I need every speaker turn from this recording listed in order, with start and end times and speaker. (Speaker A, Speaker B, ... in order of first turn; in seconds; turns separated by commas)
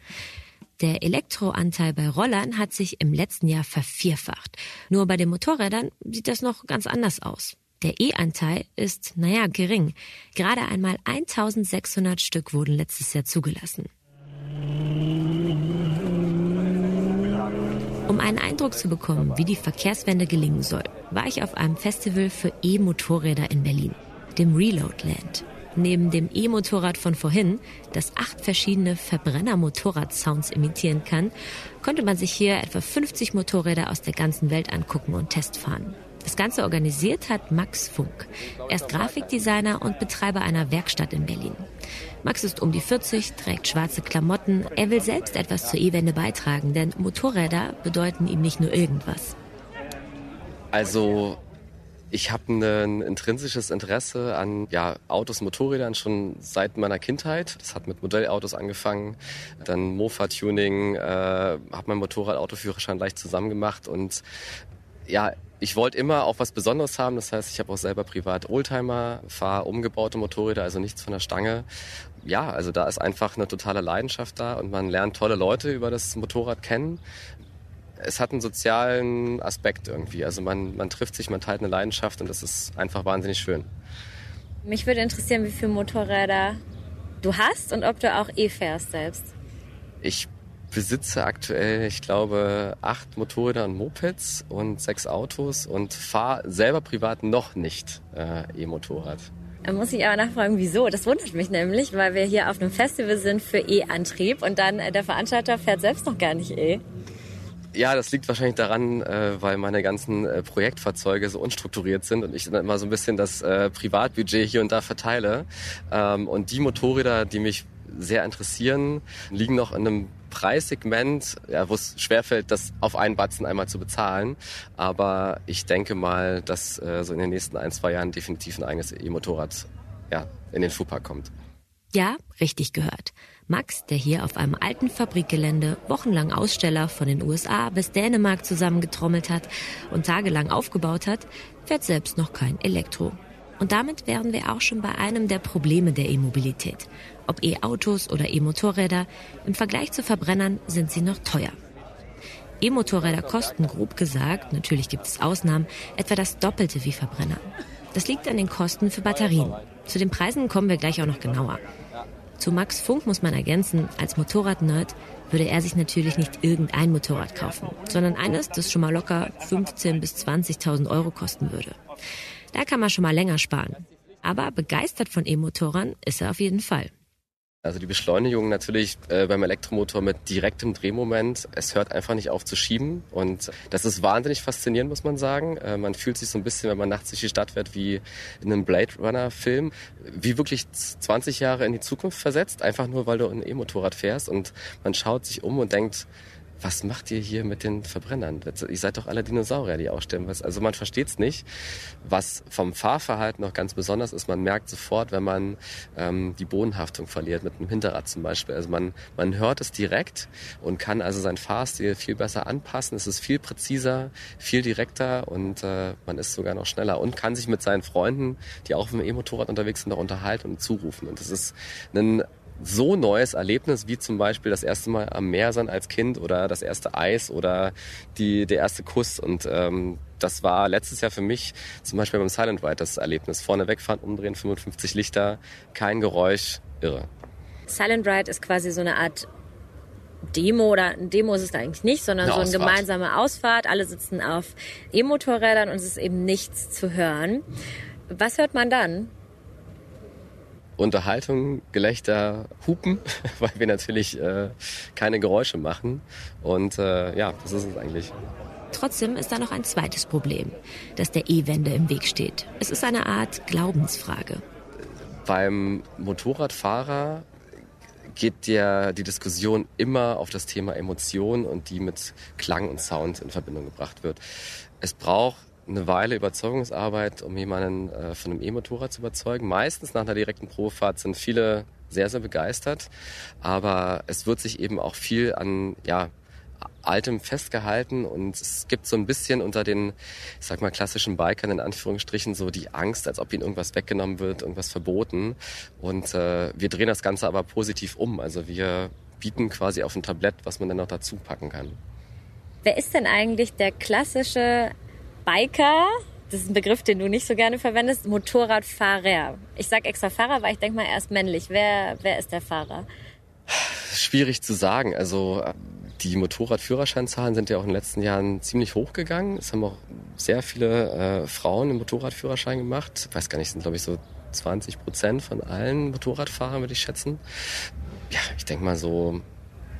Speaker A: 0.8-13.9, Speaker A: 18.1-41.7, Speaker A: 42.2-49.4, Speaker B: 50.7-51.4, Speaker B: 52.1-64.2, Speaker B: 65.1-71.7, Speaker B: 72.2-77.0, Speaker B: 78.0-83.7, Speaker C: 84.6-86.6, Speaker C: 87.2-89.3, Speaker B: 90.0-99.3, Speaker C: 99.6-106.8, Speaker B: 107.7-131.3, Speaker A: 131.9-151.6, Speaker A: 152.6-161.6, Speaker A: 162.4-171.8, Speaker A: 172.5-176.9, Speaker B: 177.6-196.1, Speaker B: 196.6-201.4, Speaker B: 202.0-237.1, Speaker C: 237.7-239.3, Speaker C: 240.3-247.4, Speaker B: 242.2-242.8, Speaker C: 248.1-249.1, Speaker B: 250.8-258.1, Speaker A: 258.7-264.4, Speaker B: 265.2-267.2, Speaker B: 268.1-274.2, Speaker B: 274.8-286.1, Speaker B: 286.8-301.8, Speaker C: 302.6-304.7, Speaker C: 305.2-312.9, Speaker B: 313.5-327.2, Speaker B: 328.1-329.2